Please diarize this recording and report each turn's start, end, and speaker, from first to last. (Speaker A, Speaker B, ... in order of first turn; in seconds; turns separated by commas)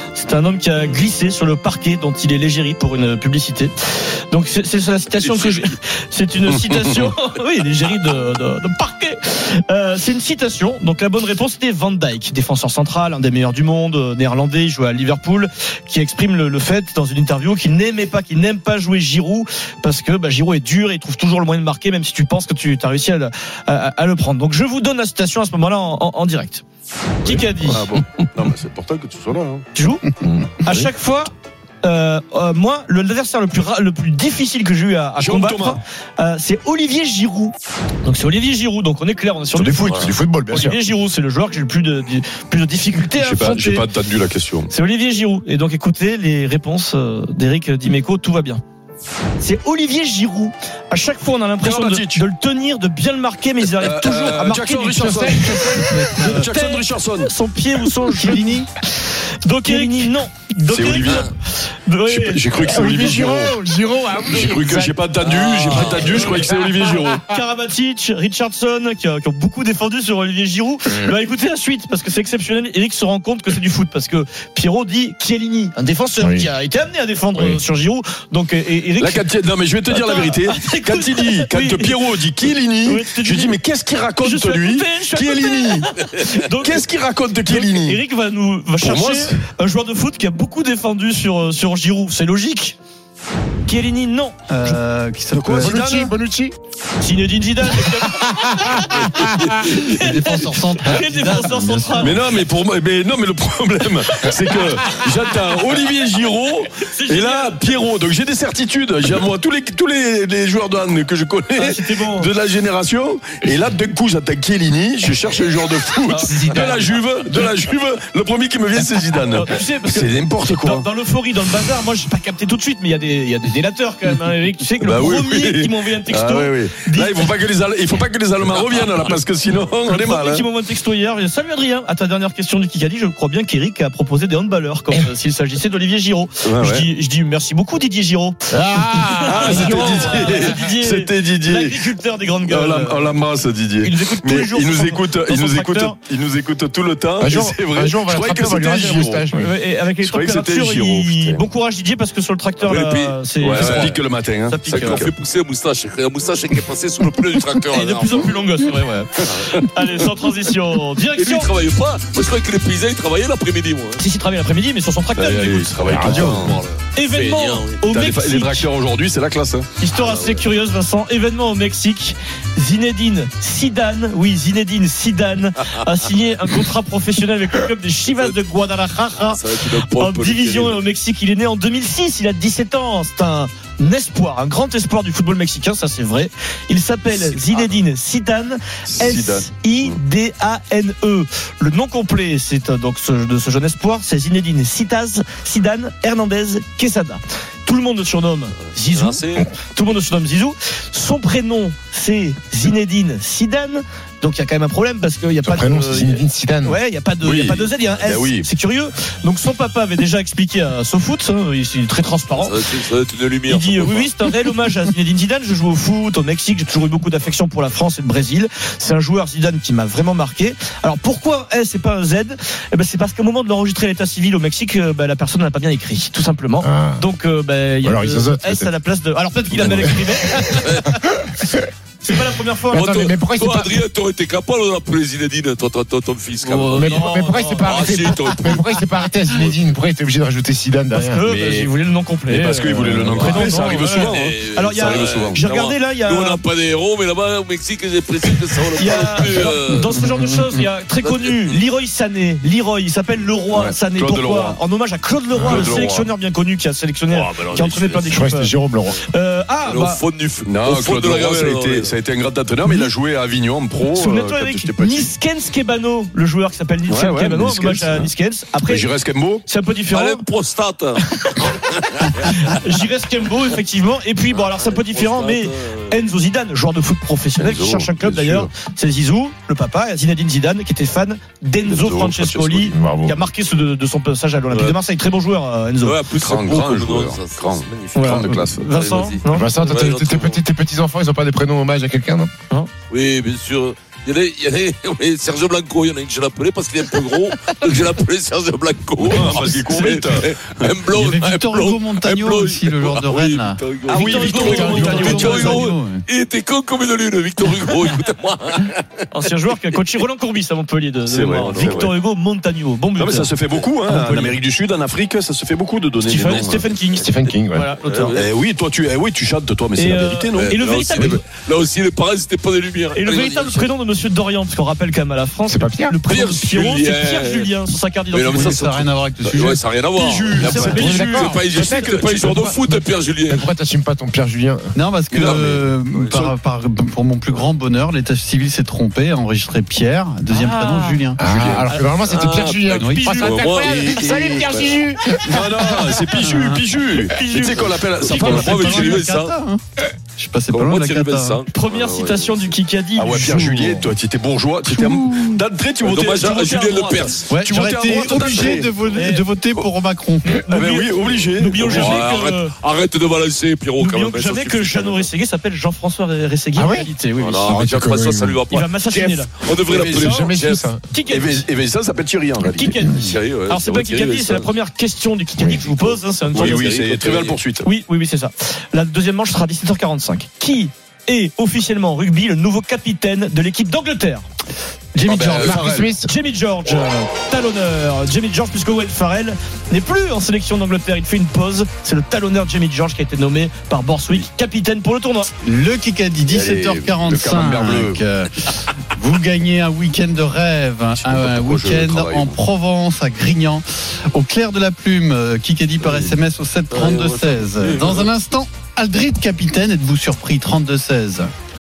Speaker A: 0.1-26.6, Speaker B: 5.2-5.8, Speaker C: 6.5-7.1, Speaker A: 27.2-27.8, Speaker C: 27.2-29.6, Speaker A: 29.8-30.0, Speaker A: 30.6-31.3, Speaker A: 31.8-43.9, Speaker C: 35.2-35.8, Speaker C: 39.5-40.8, Speaker C: 43.1-44.7, Speaker A: 44.7-48.6, Speaker A: 49.4-58.7, Speaker C: 51.6-52.2, Speaker C: 53.8-57.3, Speaker D: 55.2-55.8, Speaker E: 58.2-58.7, Speaker A: 59.4-61.3, Speaker E: 59.7-60.0, Speaker C: 60.7-61.3, Speaker A: 61.9-63.3, Speaker C: 62.1-63.6, Speaker D: 62.7-65.0, Speaker C: 64.2-67.2, Speaker B: 65.2-66.3, Speaker A: 66.0-66.5, Speaker D: 66.2-67.4, Speaker A: 67.0-79.2, Speaker D: 76.2-76.5, Speaker C: 79.0-88.0, Speaker A: 79.9-82.1, Speaker A: 82.8-83.6, Speaker A: 84.2-86.9, Speaker A: 87.5-92.8, Speaker C: 88.8-89.4, Speaker A: 93.7-94.8, Speaker E: 94.5-95.9, Speaker C: 95.3-96.2, Speaker D: 95.6-96.5, Speaker A: 97.0-102.4, Speaker D: 99.5-99.8, Speaker E: 100.1-102.1, Speaker C: 102.0-120.9, Speaker A: 104.2-104.7, Speaker A: 106.8-107.8, Speaker A: 111.5-112.3, Speaker A: 116.1-116.9, Speaker A: 119.2-127.3, Speaker C: 124.8-130.5, Speaker B: 128.5-129.2, Speaker A: 129.8-143.2, Speaker C: 136.4-136.9, Speaker D: 138.5-140.5, Speaker C: 139.2-141.8, Speaker C: 142.4-149.3, Speaker A: 143.8-146.0, Speaker D: 147.2-149.5, Speaker A: 149.3-155.1, Speaker C: 150.0-151.4, Speaker B: 152.6-154.0, Speaker C: 153.4-155.1, Speaker B: 154.7-158.3, Speaker A: 157.7-161.5, Speaker B: 159.3-159.5, Speaker B: 161.1-164.0, Speaker A: 164.0-166.2, Speaker C: 165.2-166.6, Speaker D: 165.8-166.6, Speaker B: 166.1-167.8, Speaker A: 166.9-168.7, Speaker C: 167.9-169.7, Speaker A: 169.8-212.6, Speaker B: 169.9-170.5, Speaker B: 178.1-178.4, Speaker B: 179.1-180.8, Speaker B: 187.1-187.8, Speaker C: 188.9-190.0, Speaker B: 198.9-199.5, Speaker D: 205.4-206.8, Speaker C: 207.2-208.5, Speaker B: 212.4-214.1, Speaker A: 213.5-230.7, Speaker D: 226.6-227.0, Speaker D: 227.8-228.7, Speaker D: 229.5-230.1, Speaker B: 230.4-230.9, Speaker D: 231.0-231.7, Speaker A: 232.0-232.8, Speaker D: 232.7-233.8, Speaker B: 232.7-237.1, Speaker A: 236.5-237.9, Speaker D: 236.7-241.3, Speaker B: 237.6-238.7, Speaker A: 240.9-246.4, Speaker C: 241.3-241.7, Speaker C: 242.3-245.4, Speaker B: 243.0-250.4, Speaker A: 248.8-258.5, Speaker B: 251.0-251.6, Speaker C: 253.5-254.6, Speaker D: 255.4-255.6, Speaker C: 255.4-256.1, Speaker B: 257.1-258.2, Speaker D: 258.1-259.0, Speaker A: 259.1-260.0, Speaker B: 259.6-261.9, Speaker C: 260.4-265.1, Speaker A: 262.6-262.9, Speaker A: 263.9-268.9, Speaker C: 266.9-268.1, Speaker C: 268.6-269.4, Speaker A: 269.5-270.2, Speaker B: 269.9-272.6, Speaker A: 271.2-271.5, Speaker A: 272.1-286.0, Speaker B: 274.3-276.0, Speaker C: 277.4-278.5, Speaker B: 281.7-282.5, Speaker C: 281.8-282.7, Speaker D: 282.7-283.2, Speaker B: 284.5-284.8, Speaker B: 285.8-290.4, Speaker C: 286.1-288.7, Speaker A: 287.9-289.5, Speaker D: 289.3-292.3, Speaker B: 292.9-308.9, Speaker C: 299.0-300.7, Speaker A: 299.7-300.0, Speaker E: 300.9-303.6, Speaker C: 303.9-305.7, Speaker A: 303.9-305.7, Speaker D: 304.4-305.2, Speaker E: 305.4-306.1, Speaker A: 309.1-314.4, Speaker C: 311.1-312.0, Speaker C: 312.9-316.7, Speaker A: 316.0-318.2, Speaker D: 316.9-317.7, Speaker B: 317.9-318.3, Speaker C: 318.1-321.1, Speaker A: 319.8-321.2, Speaker B: 320.4-323.7, Speaker A: 322.9-328.6, Speaker D: 325.5-326.0, Speaker B: 326.1-327.5, Speaker B: 328.1-333.5, Speaker E: 328.3-329.6, Speaker C: 330.0-332.1, Speaker D: 330.3-332.7, Speaker A: 330.5-332.0, Speaker D: 333.3-334.7, Speaker E: 334.8-341.3, Speaker B: 335.1-336.2, Speaker C: 335.3-336.3, Speaker D: 340.3-345.5, Speaker C: 341.3-341.8, Speaker B: 342.1-344.7, Speaker E: 342.8-343.2, Speaker C: 343.6-344.7, Speaker C: 345.2-348.5, Speaker E: 345.9-346.6, Speaker A: 347.0-349.0, Speaker B: 348.0-349.4, Speaker E: 348.3-349.6, Speaker E: 350.2-351.4, Speaker B: 350.5-352.5, Speaker A: 351.5-353.9, Speaker C: 353.0-358.8, Speaker E: 354.7-355.2, Speaker B: 355.8-357.3, Speaker A: 356.6-357.2, Speaker E: 357.3-360.4, Speaker A: 358.0-359.3, Speaker B: 358.3-358.8, Speaker C: 360.4-362.2, Speaker A: 360.5-362.5, Speaker B: 361.6-365.1, Speaker A: 363.8-367.5, Speaker D: 366.6-366.9, Speaker B: 367.2-370.7, Speaker D: 367.4-368.4, Speaker A: 368.5-370.3, Speaker D: 368.9-370.8, Speaker C: 369.7-370.2, Speaker A: 370.9-371.4, Speaker C: 371.1-372.9, Speaker A: 372.5-376.7, Speaker D: 372.8-373.1, Speaker B: 372.9-374.5, Speaker B: 375.8-377.4, Speaker C: 376.4-377.7, Speaker A: 377.6-384.3, Speaker A: 384.9-395.3, Speaker C: 385.1-385.9, Speaker D: 385.4-386.1, Speaker E: 395.4-411.3, Speaker C: 396.3-398.0, Speaker C: 401.0-402.4, Speaker C: 405.8-406.1, Speaker B: 406.7-408.1